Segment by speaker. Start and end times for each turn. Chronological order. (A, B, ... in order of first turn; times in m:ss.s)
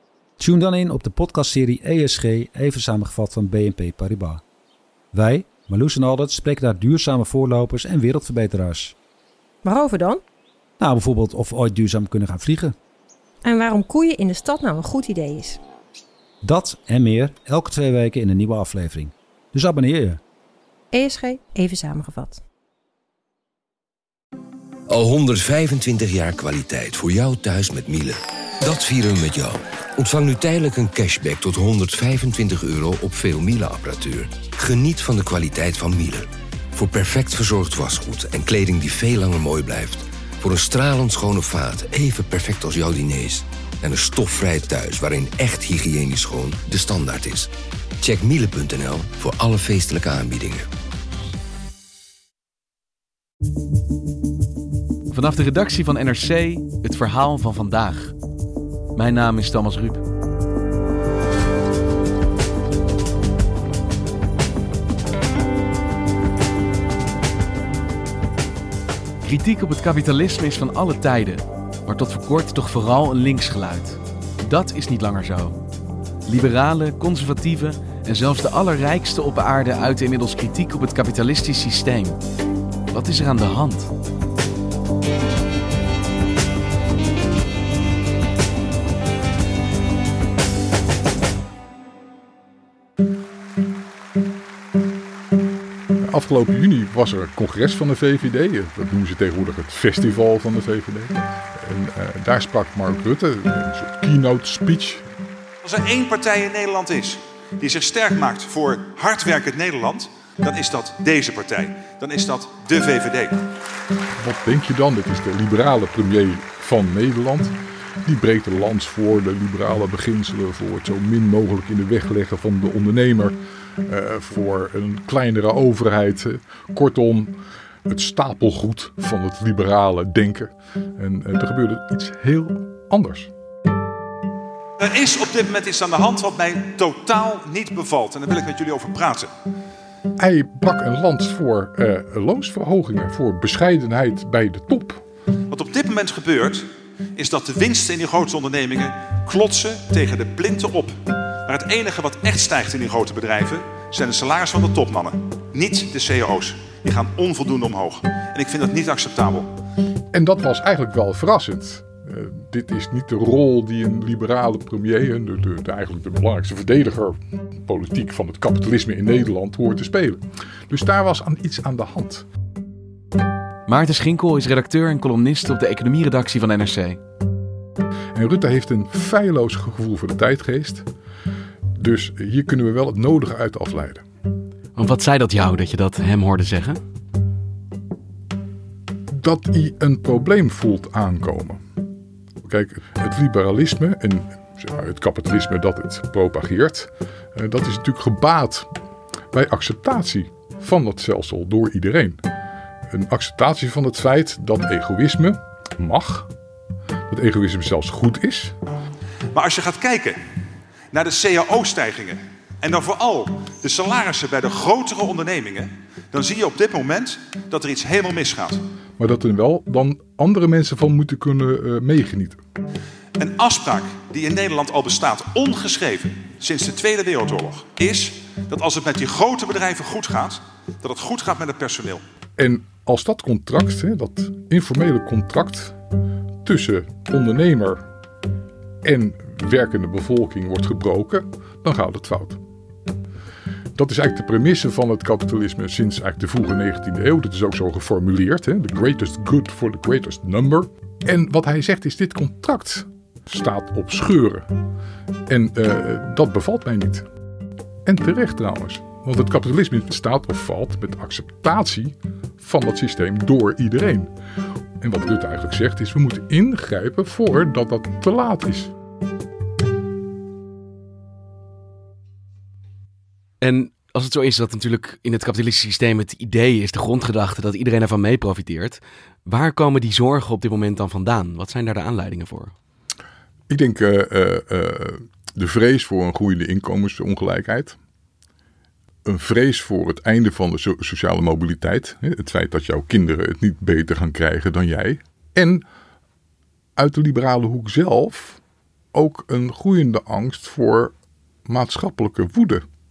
0:00.4-0:04.4 A
0:05.1-0:09.0 A
0:09.6-0:10.2 B
0:10.8-0:12.8 A
0:13.4-0:15.6 B
0:16.4-0:20.2 A
0:20.9-0:22.4 B
0:24.9-0:47.5 C
0:48.0-0:50.6 C
0:55.1-0:58.1 D
0:59.0-1:00.0 D
1:09.2-1:15.6 D
1:16.3-1:22.2 D
1:22.9-1:23.9 D
1:36.0-1:45.0 E
1:45.6-1:53.4 F
1:54.2-2:07.4 E
2:07.9-2:13.3 E
2:14.8-2:19.3 F
2:20.2-2:25.0 E
2:25.5-2:26.7 F
2:27.2-2:39.5 F
2:40.1-2:52.3 E
2:53.7-2:57.0 D
2:58.1-3:00.9 E
3:01.8-3:04.0 E
3:04.8-3:06.8 D
3:09.1-3:11.6 E
3:12.4-3:18.7 E
3:19.3-3:22.2 E
3:22.9-3:26.3 E
3:27.1-3:28.6 E
3:29.3-3:30.2 F
3:30.9-3:38.6 F
3:39.0-3:42.4 E
3:43.2-3:52.0 F
3:52.4-3:55.8 E
3:56.4-3:57.8 E
3:58.8-4:02.4 E
4:03.8-4:14.5 E
4:15.3-4:17.1 E
4:17.9-4:24.1 E
4:24.8-4:28.7 E
4:33.4-4:42.5 D
4:43.5-4:47.8 E
4:49.0-4:55.6 E
4:56.8-4:58.4 E
4:58.9-5:00.9 E
5:01.5-5:02.6 E